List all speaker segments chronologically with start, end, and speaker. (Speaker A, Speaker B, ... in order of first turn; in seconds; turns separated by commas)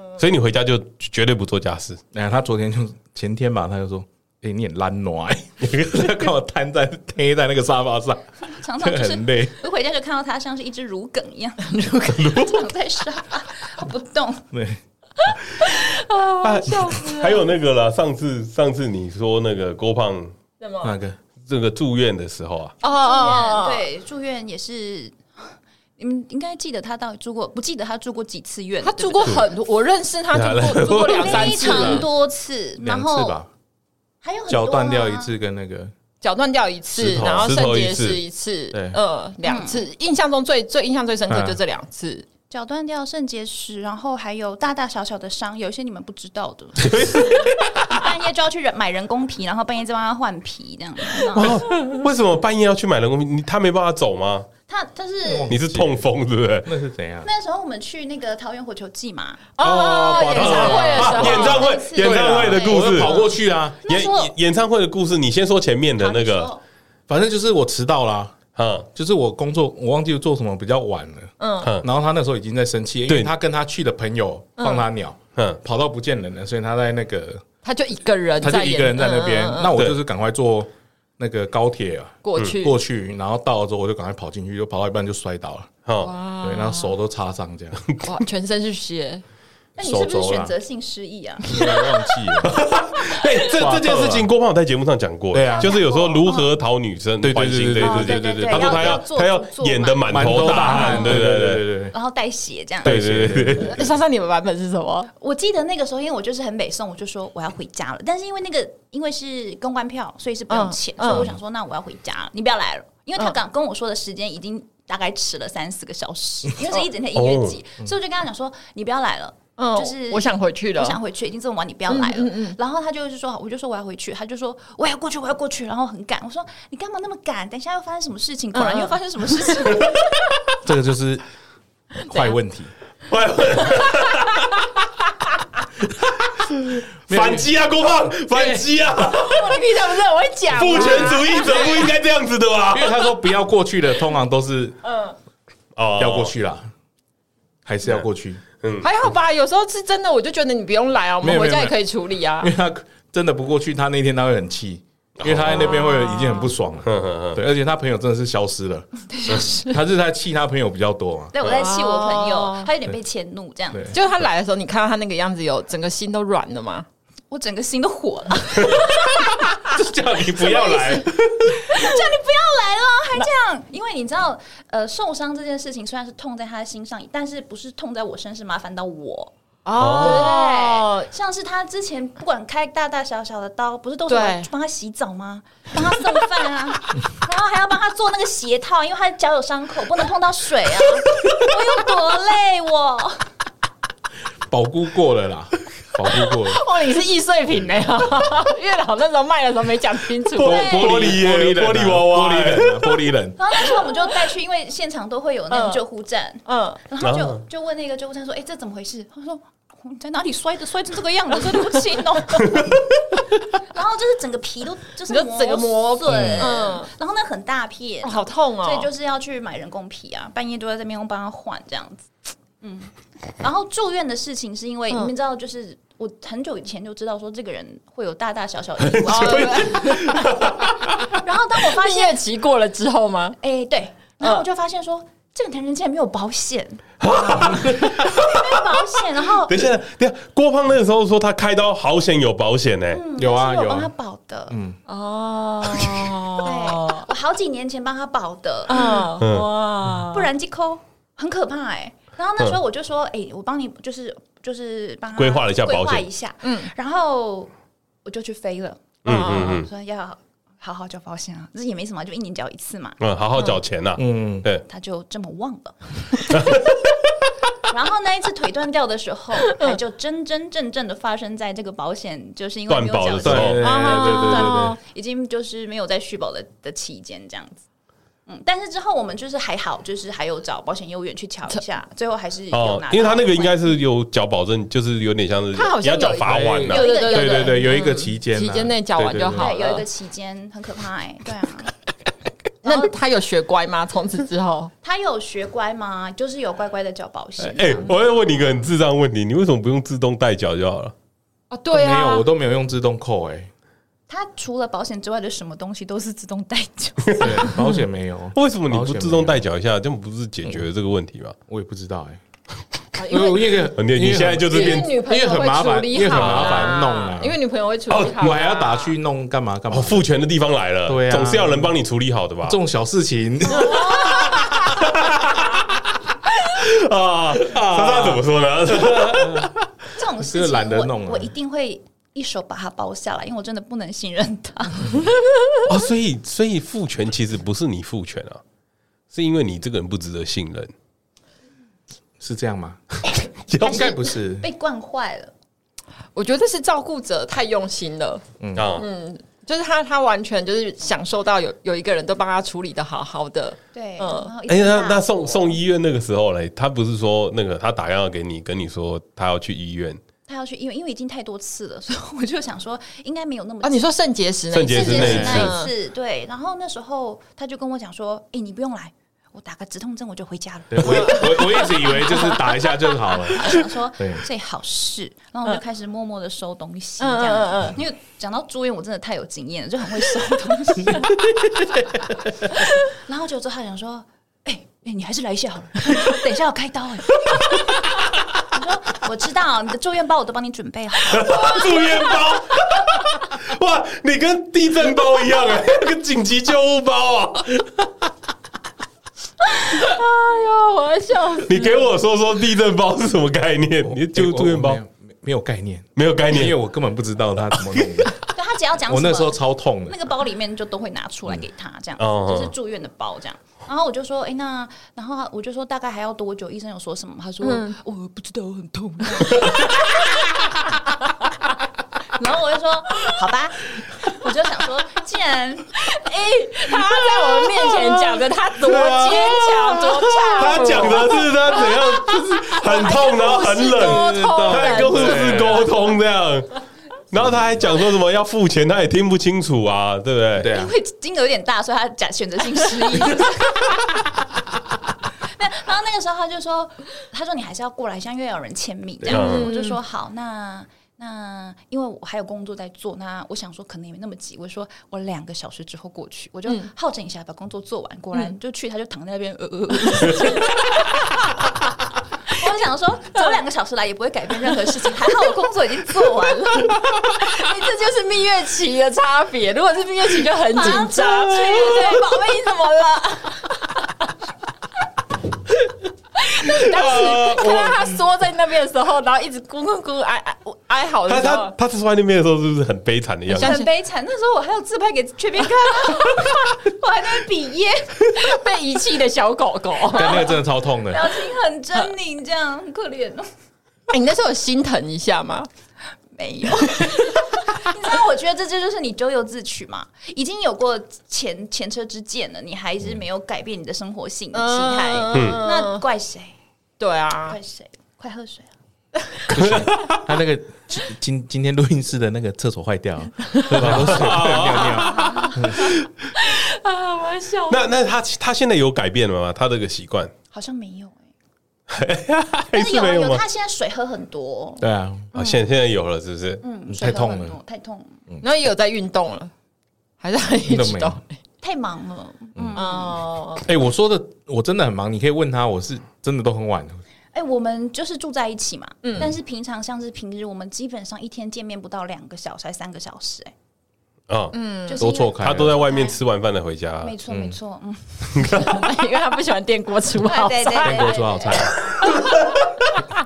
Speaker A: 0.2-2.0, Speaker B: 2.1-9.5, Speaker A: 5.6-6.3, Speaker C: 8.5-14.5, Speaker D: 11.7-12.4, Speaker A: 12.2-12.5, Speaker B: 14.5-14.8, Speaker D: 15.6-17.5, Speaker A: 16.4-20.3, Speaker D: 20.6-20.9, Speaker B: 20.8-21.2, Speaker A: 21.4-22.7, Speaker D: 22.8-23.9, Speaker C: 22.8-29.4, Speaker D: 28.8-32.1, Speaker A: 30.3-31.6, Speaker C: 30.9-33.4, Speaker B: 31.3-32.1, Speaker B: 32.8-33.5, Speaker C: 34.2-35.3, Speaker B: 34.5-35.9, Speaker D: 36.2-42.2, Speaker B: 36.9-37.5, Speaker A: 37.0-38.2, Speaker B: 38.7-39.0, Speaker C: 39.4-39.9, Speaker B: 41.3-41.6, Speaker C: 42.5-47.3, Speaker A: 46.8-47.8, Speaker C: 47.8-51.6, Speaker A: 51.3-54.5, Speaker C: 54.7-55.5, Speaker B: 55.2-56.1, Speaker A: 55.5-56.7, Speaker B: 56.6-57.3, Speaker C: 57.2-64.3, Speaker D: 59.6-61.7, Speaker B: 59.6-63.8, Speaker A: 60.3-63.2, Speaker A: 63.8-66.5, Speaker C: 66.0-66.6, Speaker B: 67.1-68.4, Speaker A: 68.5-68.9, Speaker B: 68.9-77.4, Speaker D: 71.4-71.7, Speaker A: 71.6-71.9, Speaker D: 74.6-74.8, Speaker D: 77.6-79.8, Speaker B: 78.4-85.7, Speaker D: 82.2-82.8, Speaker A: 85.8-86.1, Speaker D: 86.0-86.9, Speaker B: 86.4-87.8, Speaker D: 88.0-89.2, Speaker C: 89.8-91.8, Speaker B: 89.8-90.5, Speaker B: 91.4-92.6, Speaker A: 92.4-101.7, Speaker B: 93.5-94.3, Speaker B: 95.3-95.8, Speaker C: 95.5-96.5, Speaker B: 97.2-99.0, Speaker C: 97.8-101.2, Speaker B: 100.1-101.9, Speaker C: 101.9-103.0, Speaker B: 102.8-103.8, Speaker A: 102.8-103.8, Speaker D: 103.6-105.1, Speaker C: 105.2-129.9, Speaker D: 110.5-111.3, Speaker A: 117.1-117.6, Speaker D: 119.6-121.0, Speaker D: 121.9-122.6, Speaker D: 128.5-129.5, Speaker A: 129.7-130.1, Speaker B: 130.6-131.2, Speaker B: 132.0-132.7, Speaker A: 133.1-134.6, Speaker A: 136.5-139.6, Speaker B: 137.1-137.5, Speaker B: 138.3-138.7, Speaker D: 139.0-141.9, Speaker A: 140.5-143.1, Speaker B: 140.7-141.2, Speaker B: 142.7-144.8, Speaker D: 144.8-145.2, Speaker A: 145.8-146.3, Speaker B: 146.0-146.7, Speaker B: 147.6-148.4, Speaker A: 148.6-148.9, Speaker D: 148.8-152.5, Speaker B: 151.2-151.8, Speaker B: 152.4-161.3, Speaker A: 155.2-156.0, Speaker D: 155.7-156.5, Speaker A: 156.8-157.4, Speaker C: 159.1-159.7, Speaker C: 161.3-163.9, Speaker D: 161.5-162.7, Speaker B: 163.7-164.0, Speaker D: 163.9-166.8, Speaker C: 167.3-169.3, Speaker B: 169.4-171.8, Speaker C: 170.4-179.3, Speaker D: 179.6-181.1, Speaker A: 179.8-180.3, Speaker C: 179.9-193.2, Speaker D: 184.1-184.5, Speaker B: 194.5-196.6, Speaker D: 196.2-200.8, Speaker A: 200.4-203.0, Speaker B: 200.4-203.4, Speaker C: 200.5-201.0, Speaker C: 203.4-212.8, Speaker D: 205.5-205.8, Speaker D: 206.4-206.8, Speaker A: 207.0-207.4, Speaker C: 213.5-230.3, Speaker D: 215.1-216.9, Speaker A: 216.1-216.6, Speaker D: 218.0-218.9, Speaker A: 229.0-230.8, Speaker D: 229.1-230.2, Speaker B: 229.6-229.9, Speaker C: 231.1-232.2, Speaker D: 231.6-233.4, Speaker C: 233.4-239.6, Speaker A: 237.0-238.7, Speaker A: 239.4-243.0, Speaker C: 242.9-244.5, Speaker B: 243.2-243.9, Speaker B: 244.5-244.8, Speaker D: 244.9-247.1, Speaker A: 245.8-246.0, Speaker C: 246.4-249.1, Speaker D: 248.7-250.3, Speaker A: 248.8-249.5, Speaker C: 250.1-257.5, Speaker A: 255.2-256.1, Speaker D: 256.4-256.7, Speaker C: 258.0-263.0, Speaker A: 259.0-259.7, Speaker D: 259.1-259.6, Speaker A: 263.0-264.6, Speaker B: 263.9-264.5, Speaker C: 264.7-266.2, Speaker A: 266.3-266.7, Speaker C: 267.6-277.6, Speaker A: 272.7-273.6, Speaker B: 273.2-274.8, Speaker D: 273.6-274.8, Speaker C: 278.3-283.6, Speaker A: 282.5-286.9, Speaker D: 285.5-289.9, Speaker B: 286.2-289.5, Speaker C: 286.7-287.7, Speaker C: 289.4-291.7, Speaker D: 292.6-294.7, Speaker C: 292.6-292.9, Speaker C: 294.8-297.9, Speaker A: 297.4-300.9, Speaker D: 301.5-302.3, Speaker B: 301.7-303.5, Speaker C: 304.1-307.5, Speaker A: 307.1-307.8, Speaker B: 307.2-309.4, Speaker A: 308.3-311.4, Speaker B: 311.5-312.2, Speaker D: 312.9-313.7, Speaker B: 313.1-317.4, Speaker A: 313.6-314.9, Speaker D: 314.5-318.9, Speaker A: 316.1-316.7, Speaker A: 317.9-318.4, Speaker B: 318.1-320.0, Speaker A: 319.7-322.6, Speaker B: 320.9-321.7, Speaker B: 322.4-324.2, Speaker D: 323.6-324.5, Speaker A: 323.8-325.4, Speaker A: 326.4-329.6, Speaker B: 327.3-329.5, Speaker C: 329.9-335.0, Speaker B: 330.2-331.3, Speaker A: 335.6-338.4, Speaker A: 339.1-340.7, Speaker B: 342.2-342.8, Speaker A: 343.5-343.9, Speaker B: 343.6-344.5, Speaker C: 343.6-345.3, Speaker D: 346.1-348.2, Speaker B: 348.4-348.7, Speaker A: 348.5-348.9, Speaker D: 348.8-354.3, Speaker C: 353.7-355.4, Speaker A: 354.5-360.0, Speaker C: 360.3-363.9, Speaker D: 363.6-365.7, Speaker A: 364.5-365.5, Speaker C: 364.7-372.5, Speaker B: 365.0-365.5, Speaker B: 370.7-374.2, Speaker D: 370.8-372.3, Speaker C: 373.3-381.1, Speaker D: 377.0-377.8, Speaker C: 382.6-387.8, Speaker C: 388.4-392.0, Speaker A: 391.1-397.8, Speaker D: 399.5-401.9, Speaker A: 401.4-404.8, Speaker B: 403.8-408.1, Speaker A: 405.9-406.6, Speaker A: 407.8-408.1, Speaker C: 408.3-420.2, Speaker B: 408.9-409.9, Speaker A: 412.0-412.5, Speaker D: 417.4-417.8, Speaker C: 422.0-425.7, Speaker D: 425.8-435.7, Speaker A: 428.6-436.6, Speaker B: 433.8-435.6, Speaker A: 437.1-440.5, Speaker B: 440.4-440.7, Speaker C: 440.5-443.9, Speaker C: 445.2-461.1, Speaker A: 449.1-449.5, Speaker D: 449.1-449.8, Speaker D: 459.9-460.8, Speaker C: 462.3-466.9, Speaker D: 466.3-472.6, Speaker C: 470.5-473.4, Speaker D: 476.2-481.5, Speaker C: 476.5-477.6, Speaker A: 481.1-483.5, Speaker D: 483.3-483.7, Speaker C: 483.4-488.1, Speaker D: 488.1-490.3, Speaker B: 489.9-491.1, Speaker C: 490.0-490.3, Speaker C: 490.9-493.3, Speaker D: 493.9-495.5, Speaker C: 496.1-506.3, Speaker D: 504.3-505.8, Speaker A: 505.1-505.4, Speaker D: 506.8-507.4, Speaker C: 507.3-508.5, Speaker B: 509.3-515.8, Speaker A: 509.3-510.0, Speaker A: 513.5-515.9, Speaker C: 514.7-515.7, Speaker D: 516.2-517.6, Speaker A: 517.5-520.1, Speaker C: 520.3-521.1, Speaker A: 521.7-523.2, Speaker C: 522.5-524.6, Speaker B: 524.6-525.1, Speaker A: 525.1-526.4, Speaker C: 526.4-528.0, Speaker B: 526.7-527.4, Speaker D: 528.2-529.3, Speaker D: 530.0-531.1, Speaker B: 530.5-531.0, Speaker C: 531.4-533.0, Speaker D: 532.5-533.4, Speaker B: 533.4-536.8, Speaker C: 537.1-543.3, Speaker D: 538.8-539.1, Speaker A: 544.1-544.4, Speaker D: 544.3-544.9, Speaker C: 544.7-546.0, Speaker B: 544.8-545.6, Speaker A: 545.1-547.0, Speaker C: 546.8-548.4, Speaker B: 547.1-547.4, Speaker A: 548.1-548.6, Speaker D: 548.4-550.9, Speaker C: 550.0-551.5, Speaker B: 550.6-551.6, Speaker A: 551.7-552.7